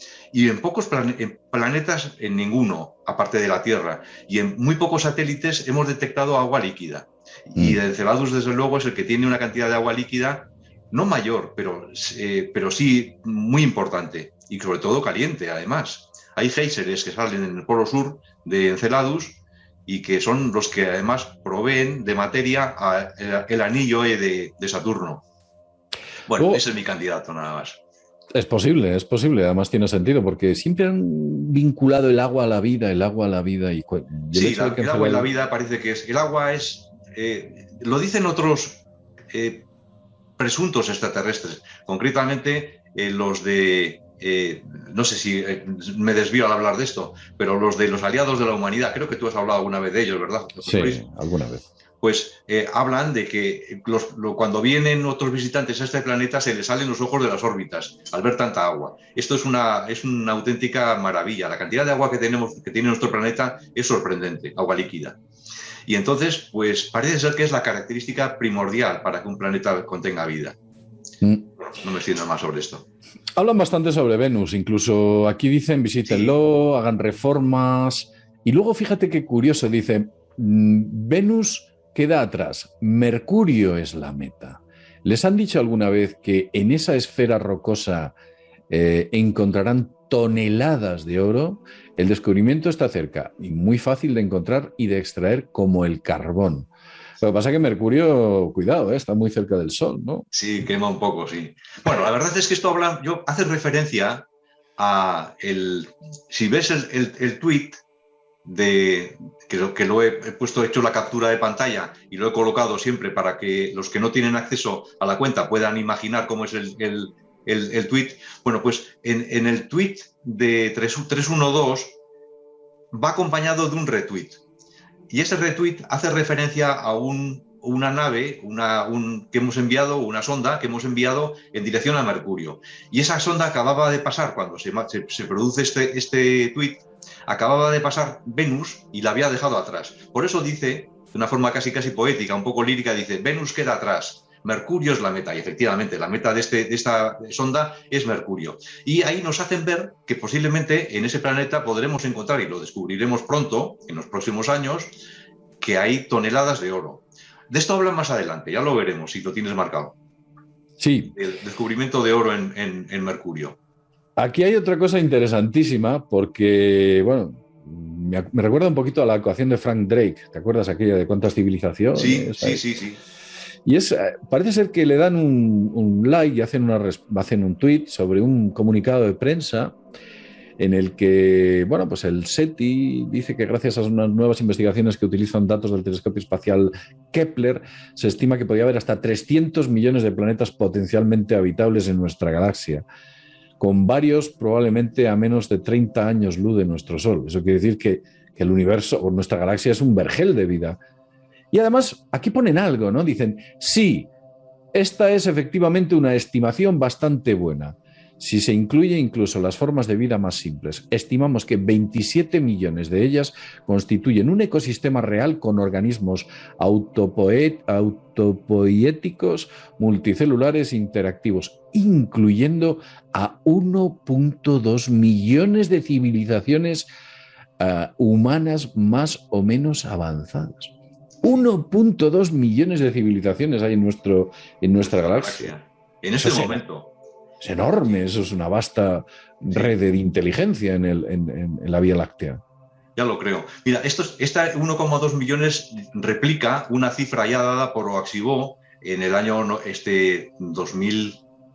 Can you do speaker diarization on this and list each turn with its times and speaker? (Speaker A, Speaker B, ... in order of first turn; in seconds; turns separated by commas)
Speaker A: 0.3-25.2, Speaker A: 26.3-27.8, Speaker B: 26.4-26.6, Speaker B: 28.4-35.3, Speaker A: 34.3-39.7, Speaker A: 40.4-51.0, Speaker B: 50.6-51.7, Speaker A: 52.0-65.2, Speaker A: 65.9-70.6, Speaker B: 71.2-71.5, Speaker A: 71.6-72.9, Speaker B: 73.4-88.1, Speaker A: 76.0-76.3, Speaker B: 88.7-96.7, Speaker B: 97.2-100.3, Speaker A: 100.3-104.2, Speaker A: 104.8-107.8, Speaker A: 108.4-122.0, Speaker A: 122.9-124.4, Speaker A: 125.1-154.9, Speaker A: 155.6-159.9, Speaker B: 160.8-161.1, Speaker A: 161.1-163.6, Speaker B: 164.2-172.6, Speaker A: 171.9-173.0, Speaker B: 173.7-179.7, Speaker B: 180.6-192.8, Speaker B: 193.6-200.8, Speaker B: 201.5-204.1, Speaker B: 204.7-226.9, Speaker B: 227.6-235.5, Speaker A: 234.8-236.9, Speaker B: 236.2-236.6, Speaker B: 237.4-242.4, Speaker A: 242.9-251.2